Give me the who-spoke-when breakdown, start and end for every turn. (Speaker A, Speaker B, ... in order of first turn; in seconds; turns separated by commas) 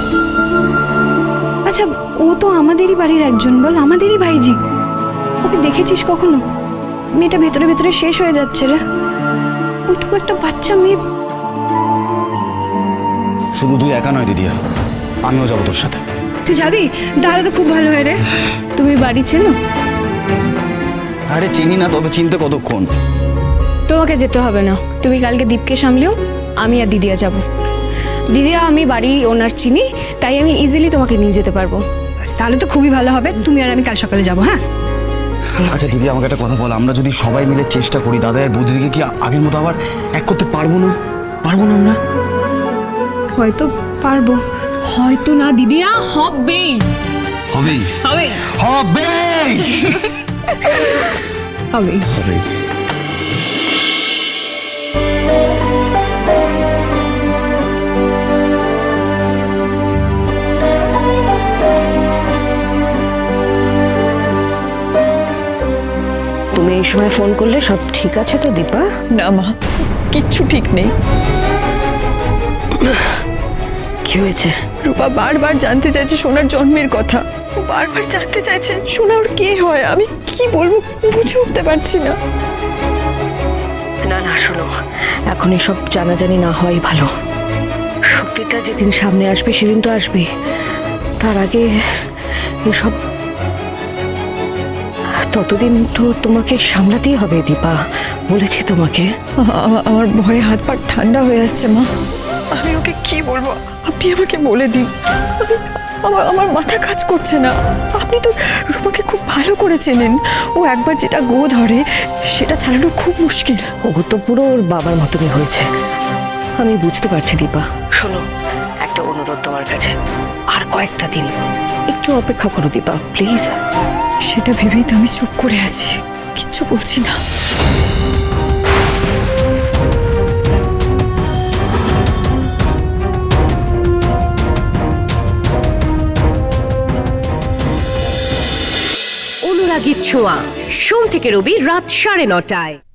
Speaker A: 1.7-4.6, Speaker A: 5.4-6.4, Speaker A: 7.2-8.8, Speaker A: 9.9-11.0, Speaker B: 13.6-14.6, Speaker B: 15.3-16.0, Speaker A: 16.4-18.2, Speaker C: 18.8-19.6, Speaker B: 21.3-22.9, Speaker C: 23.9-27.4, Speaker C: 28.3-31.8, Speaker A: 32.2-34.6, Speaker B: 35.6-42.0, Speaker A: 43.4-44.4, Speaker C: 44.9-46.8, Speaker B: 47.5-47.9, Speaker C: 48.1-48.3, Speaker B: 48.6-50.0, Speaker C: 51.7-52.1, Speaker B: 52.1-52.4, Speaker D: 66.5-68.9, Speaker E: 69.1-69.5, Speaker E: 70.1-70.9, Speaker D: 74.0-74.5, Speaker E: 74.8-82.2, Speaker D: 84.0-84.7, Speaker D: 85.3-87.1, Speaker D: 88.1-90.3, Speaker D: 91.2-91.7, Speaker D: 92.7-93.0, Speaker D: 95.2-99.1, Speaker E: 99.4-101.8, Speaker E: 102.5-111.8, Speaker E: 112.3-113.7, Speaker D: 113.8-115.7, Speaker D: 116.6-118.2, Speaker D: 118.8-119.9, Speaker D: 120.5-121.3, Speaker D: 121.9-123.5, Speaker E: 124.3-127.2, Speaker F: 139.4-142.8